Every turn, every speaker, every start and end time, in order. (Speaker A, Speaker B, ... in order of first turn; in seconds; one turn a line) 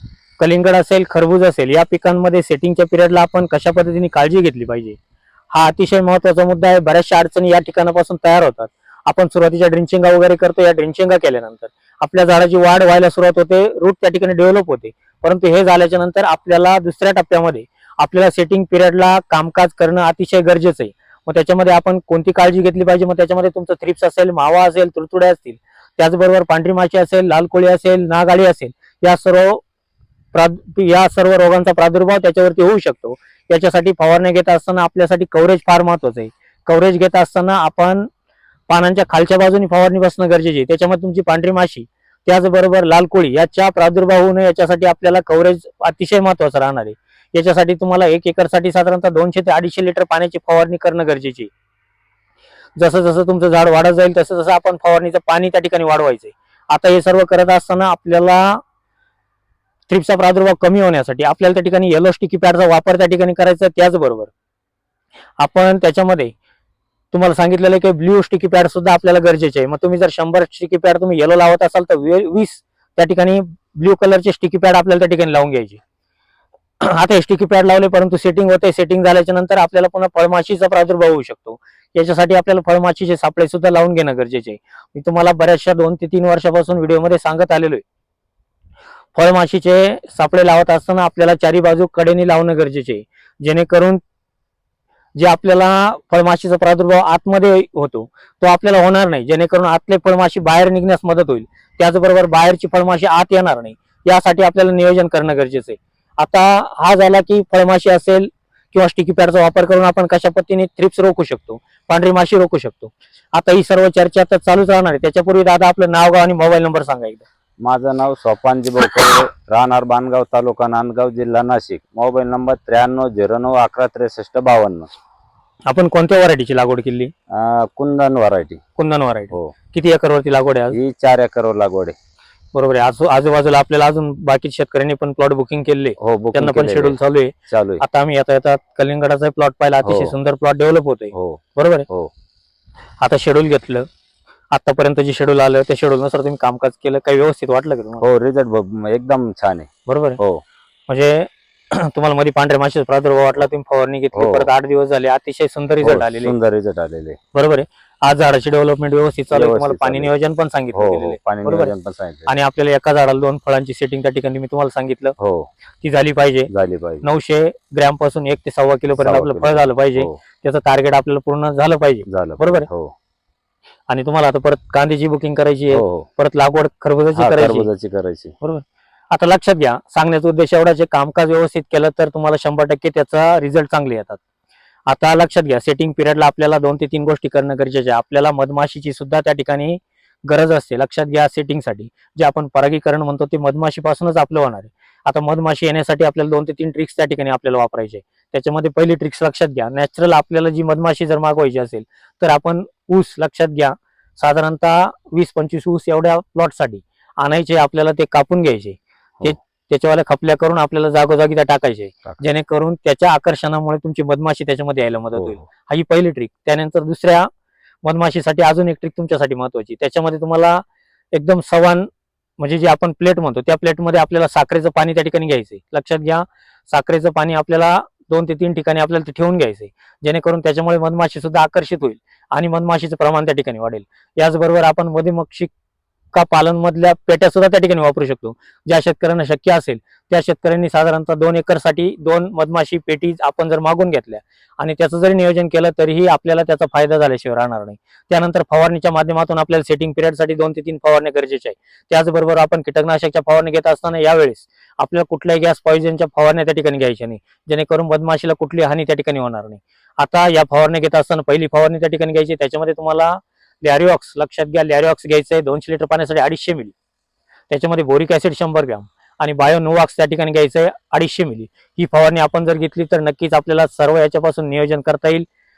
Speaker A: 0.4-5.0
Speaker A: 5.5-29.6
Speaker A: 30.3-38.1
Speaker A: 38.7-51.5
Speaker A: 52.8-58.6
Speaker A: 59.9-64.3
Speaker A: 65.4-66.3
Speaker A: 67.1-75.8
Speaker A: 76.8-87.8
Speaker A: 89.2-94.0
Speaker A: 95.2-117.2
Speaker B: 117.6-124.9
Speaker A: 125.7-127.1
Speaker B: 127.3-128.6
Speaker A: 128.8-130.8
Speaker B: 130.7-131.9
Speaker A: 132.5-141.9
Speaker B: 136.0-137.0
Speaker B: 137.5-137.8
Speaker B: 139.8-140.1
Speaker B: 141.1-142.1
Speaker A: 143.0-143.9
Speaker A: 144.5-148.0
Speaker B: 148.0-150.4
Speaker A: 149.8-150.2
Speaker A: 150.9-156.3
Speaker B: 154.1-154.5
Speaker B: 155.8-157.2
Speaker A: 157.3-161.7
Speaker B: 159.3-160.1
Speaker B: 160.7-162.3
Speaker A: 162.3-165.2
Speaker B: 165.2-165.5
Speaker A: 165.8-166.5
Speaker B: 166.5-167.1
Speaker A: 167.0-172.7
Speaker B: 169.0-170.2
Speaker B: 172.1-172.9
Speaker A: 173.9-177.7
Speaker B: 175.7-176.1
Speaker B: 177.2-178.3
Speaker A: 178.4-184.2
Speaker A: 184.9-217.3
Speaker B: 215.1-215.4
Speaker A: 217.8-221.9
Speaker A: 222.4-235.5
Speaker A: 236.1-266.7
Speaker A: 267.5-275.2